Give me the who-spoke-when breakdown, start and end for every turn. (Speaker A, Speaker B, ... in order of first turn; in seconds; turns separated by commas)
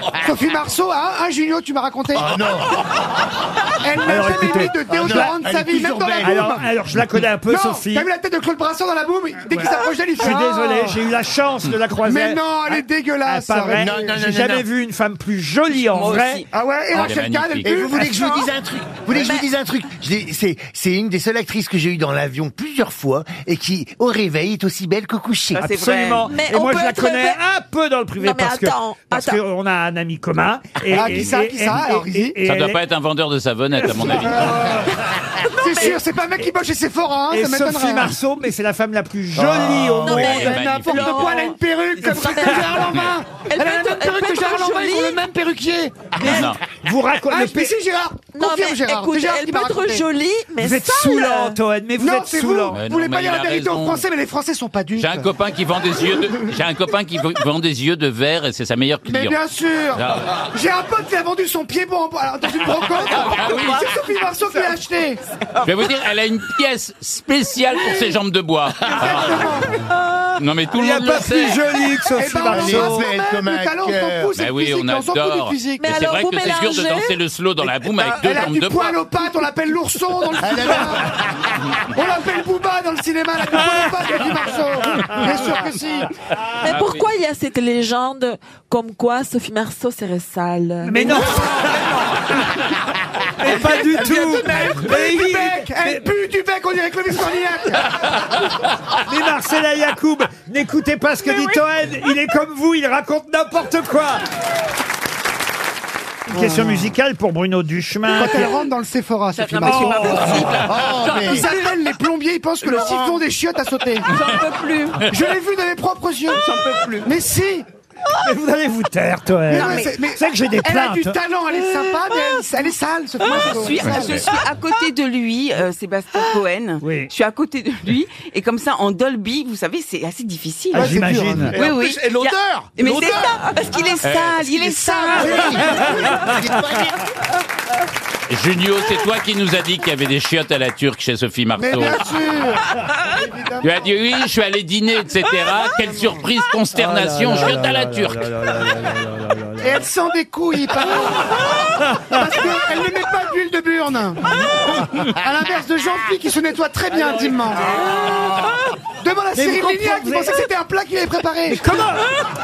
Speaker A: 0.1-2.3, Speaker B: 2.1-2.7, Speaker A: 3.8-6.7, Speaker C: 4.0-5.3, Speaker B: 4.9-6.6, Speaker C: 6.2-8.1, Speaker A: 7.5-11.0, Speaker C: 9.5-16.4, Speaker A: 12.0-14.2, Speaker B: 13.8-14.7, Speaker D: 15.7-16.5, Speaker A: 16.5-18.1, Speaker E: 16.9-17.7, Speaker B: 17.6-25.7, Speaker C: 17.9-18.4, Speaker F: 19.1-19.5, Speaker D: 25.5-26.3, Speaker C: 25.7-32.8, Speaker F: 26.2-27.4, Speaker F: 28.2-29.4, Speaker A: 30.9-32.4, Speaker E: 31.0-31.3, Speaker E: 32.5-34.8, Speaker A: 34.1-34.9, Speaker F: 35.3-36.0, Speaker A: 35.6-38.1, Speaker C: 37.3-40.6, Speaker B: 39.4-40.2, Speaker F: 40.0-45.2, Speaker A: 40.2-46.2, Speaker E: 40.3-41.3, Speaker C: 46.2-47.7, Speaker F: 46.2-46.5, Speaker E: 46.2-46.6, Speaker A: 47.3-50.1, Speaker F: 48.3-51.6, Speaker C: 50.6-52.8, Speaker A: 52.0-55.3, Speaker E: 52.7-54.0, Speaker E: 55.0-59.4, Speaker A: 59.0-65.2, Speaker E: 59.9-60.4, Speaker E: 63.1-63.9, Speaker E: 65.6-69.7, Speaker A: 68.9-69.7, Speaker E: 70.3-71.7, Speaker C: 70.7-73.1, Speaker A: 72.2-75.9, Speaker B: 72.5-74.3, Speaker E: 74.4-79.0, Speaker F: 75.8-77.2, Speaker A: 77.8-81.2, Speaker B: 80.4-81.7, Speaker A: 81.9-86.1, Speaker F: 86.6-91.7, Speaker E: 86.6-87.1, Speaker C: 90.8-92.4, Speaker A: 91.1-92.0, Speaker C: 93.4-96.0, Speaker A: 93.4-97.9, Speaker C: 99.0-104.2, Speaker C: 106.3-108.5, Speaker A: 106.3-106.9, Speaker A: 108.1-114.1, Speaker D: 109.3-111.7, Speaker C: 109.6-110.2, Speaker B: 109.8-111.5, Speaker D: 112.6-113.2, Speaker D: 114.1-115.0, Speaker E: 114.1-114.4, Speaker F: 114.5-114.8, Speaker A: 115.1-116.4, Speaker D: 116.3-117.1, Speaker A: 117.0-117.7, Speaker C: 118.2-121.2, Speaker A: 119.5-124.3, Speaker D: 119.5-119.9, Speaker D: 123.3-130.9, Speaker E: 123.8-124.3, Speaker C: 126.8-127.1, Speaker A: 130.7-131.5, Speaker C: 130.7-131.6, Speaker B: 131.5-133.5, Speaker D: 131.5-136.1, Speaker E: 134.0-134.5, Speaker A: 134.5-135.8, Speaker B: 135.1-137.2, Speaker E: 138.3-142.1, Speaker A: 141.5-144.0, Speaker E: 143.6-148.3, Speaker C: 146.7-149.9, Speaker A: 149.6-154.2, Speaker A: 154.7-157.8, Speaker C: 158.1-158.4, Speaker A: 159.0-161.6, Speaker C: 159.3-160.4, Speaker C: 161.5-162.1